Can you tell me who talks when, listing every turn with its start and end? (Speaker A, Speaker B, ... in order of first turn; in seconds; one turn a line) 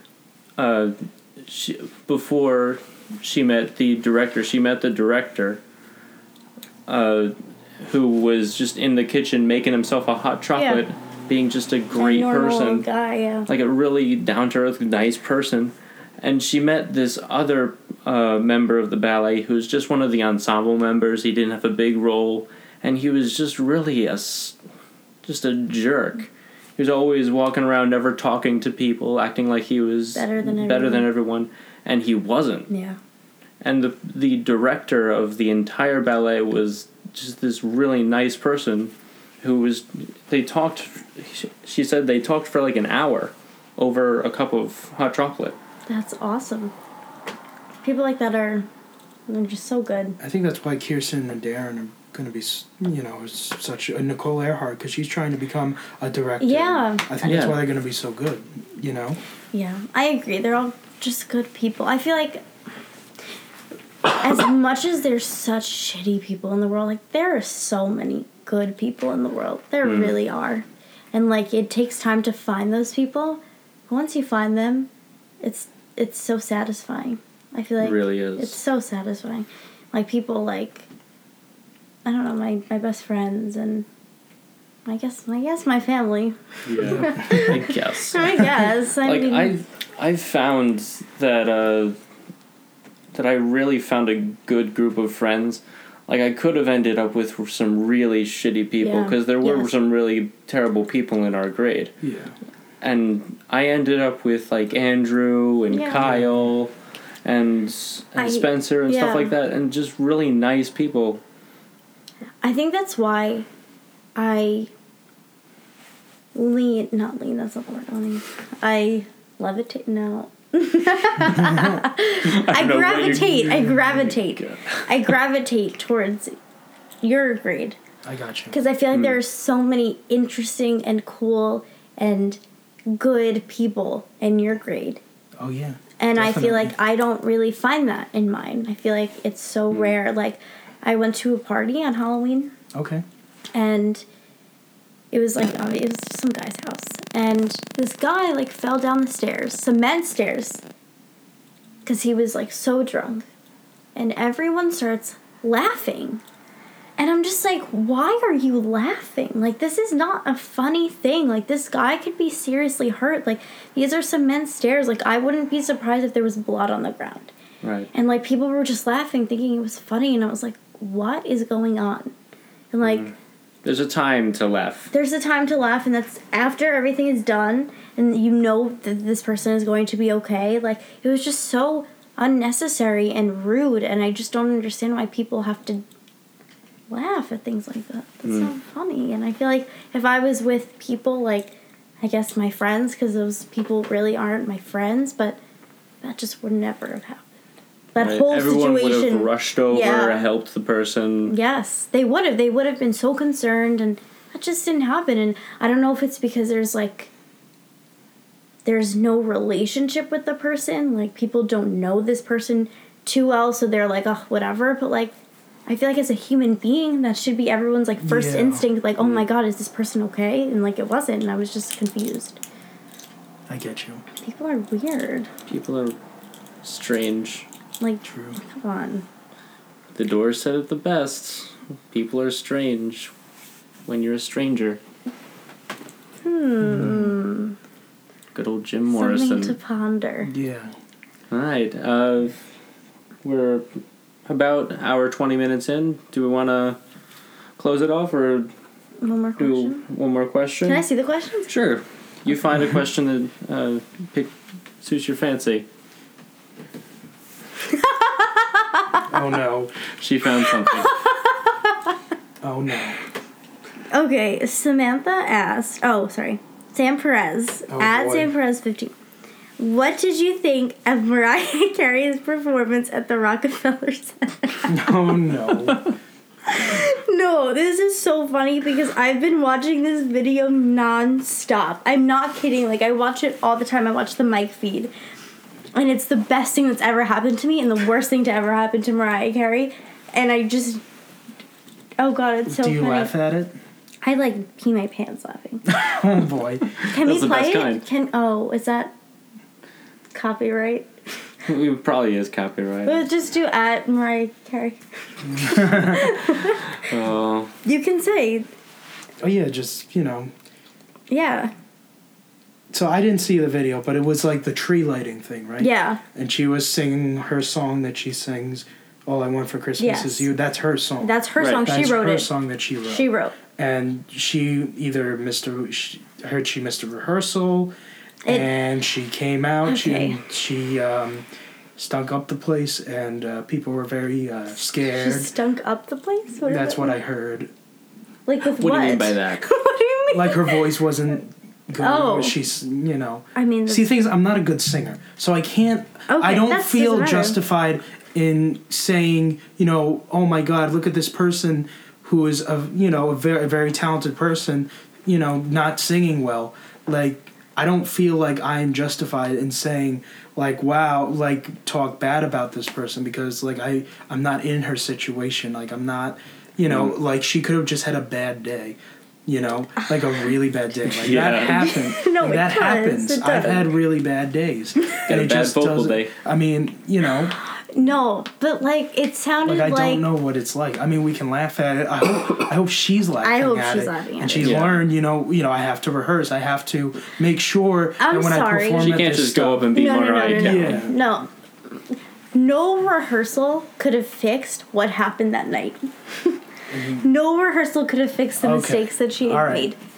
Speaker A: 0.6-5.6
Speaker A: 6.9-12.9
Speaker B: 10.5-10.8
Speaker B: 11.9-13.5
Speaker A: 13.5-24.6
Speaker A: 25.2-32.7
Speaker B: 30.1-31.1
Speaker B: 32.7-33.0
Speaker A: 33.6-45.5
Speaker B: 45.9-46.7
Speaker B: 47.8-48.7
Speaker B: 49.3-50.2
Speaker C: 50.2-59.2
Speaker B: 56.4-57.0
Speaker A: 57.2-57.6
Speaker B: 59.5-62.4
Speaker B: 64.2-74.9
Speaker A: 69.8-70.2
Speaker B: 75.4-80.8
Speaker A: 77.8-78.6
Speaker B: 82.0-83.8
Speaker B: 84.9-89.5
Speaker A: 86.7-92.0
Speaker A: 93.1-101.9
Speaker B: 98.8-99.7
Speaker C: 102.0-102.3
Speaker A: 102.8-106.7
Speaker B: 105.7-106.0
Speaker C: 106.0-106.5
Speaker A: 107.2-111.2
Speaker B: 108.2-109.3
Speaker B: 112.4-113.5
Speaker B: 114.2-114.7
Speaker B: 116.3-126.3
Speaker C: 121.3-121.8
Speaker A: 122.2-124.9
Speaker C: 123.1-124.1
Speaker B: 127.0-127.8
Speaker C: 128.0-128.5
Speaker B: 128.5-135.0
Speaker C: 135.4-136.7
Speaker B: 136.0-142.5
Speaker A: 139.7-139.9
Speaker C: 142.7-143.0
Speaker B: 143.5-144.0
Speaker B: 145.1-150.6
Speaker B: 151.8-153.3
Speaker B: 153.9-156.2
Speaker B: 157.0-167.3
Speaker A: 167.6-167.9
Speaker B: 167.9-172.1
Speaker B: 172.7-173.1
Speaker A: 172.8-173.1
Speaker A: 173.6-174.9
Speaker B: 174.9-185.8
Speaker B: 186.9-195.4
Speaker A: 188.2-188.5
Speaker B: 196.0-197.2
Speaker B: 197.9-200.2
Speaker A: 198.0-201.3
Speaker B: 201.2-207.1
Speaker B: 208.6-215.1
Speaker B: 215.7-222.4
Speaker C: 218.0-218.7
Speaker C: 223.5-224.0
Speaker B: 224.2-225.3
Speaker A: 225.5-225.9
Speaker A: 226.6-227.4
Speaker B: 227.8-229.1
Speaker C: 228.0-228.4
Speaker A: 229.9-233.1
Speaker A: 233.8-234.8
Speaker B: 236.2-237.6
Speaker C: 236.6-237.1
Speaker A: 238.3-239.6
Speaker B: 238.9-240.3
Speaker C: 240.2-240.7
Speaker A: 241.3-242.4
Speaker A: 243.2-243.6
Speaker A: 244.2-246.8
Speaker A: 247.6-248.5
Speaker B: 249.0-249.8
Speaker A: 249.4-250.8
Speaker B: 250.6-251.5
Speaker A: 251.5-255.7
Speaker B: 257.7-259.0
Speaker C: 259.1-259.8
Speaker A: 259.9-260.9
Speaker B: 260.7-261.9
Speaker C: 262.4-263.0
Speaker B: 263.9-268.9
Speaker C: 267.7-268.3
Speaker B: 269.6-274.9
Speaker C: 274.7-275.8
Speaker B: 276.5-284.9
Speaker B: 285.7-290.8
Speaker B: 292.0-293.1
Speaker C: 292.5-293.6
Speaker B: 294.0-295.8
Speaker C: 295.6-296.7
Speaker A: 296.8-297.8
Speaker B: 296.8-298.9
Speaker B: 300.1-300.9
Speaker A: 301.4-303.1
Speaker B: 302.8-306.7
Speaker C: 305.3-306.1
Speaker A: 306.8-307.5
Speaker B: 307.6-308.5
Speaker C: 309.2-310.3
Speaker B: 311.1-311.5
Speaker C: 312.7-327.7
Speaker B: 315.6-316.0
Speaker B: 319.8-320.3
Speaker B: 321.0-322.3
Speaker A: 321.4-321.8
Speaker B: 322.8-323.4
Speaker B: 328.2-328.5
Speaker C: 328.3-335.3
Speaker B: 329.6-330.2
Speaker B: 334.8-336.9
Speaker C: 336.4-337.5
Speaker B: 338.3-340.7
Speaker A: 338.6-339.5
Speaker C: 340.1-377.3
Speaker B: 341.8-342.4
Speaker B: 343.3-343.9
Speaker B: 346.1-347.4
Speaker A: 366.7-366.9
Speaker B: 369.8-370.3
Speaker A: 370.9-371.6
Speaker B: 371.4-373.7
Speaker A: 375.0-376.1
Speaker B: 377.4-380.0
Speaker C: 379.4-389.7
Speaker B: 383.2-384.5
Speaker A: 384.4-384.8
Speaker B: 388.0-389.1
Speaker A: 388.8-390.8
Speaker B: 389.7-399.8
Speaker C: 390.4-390.9
Speaker C: 396.7-397.1
Speaker C: 398.4-399.7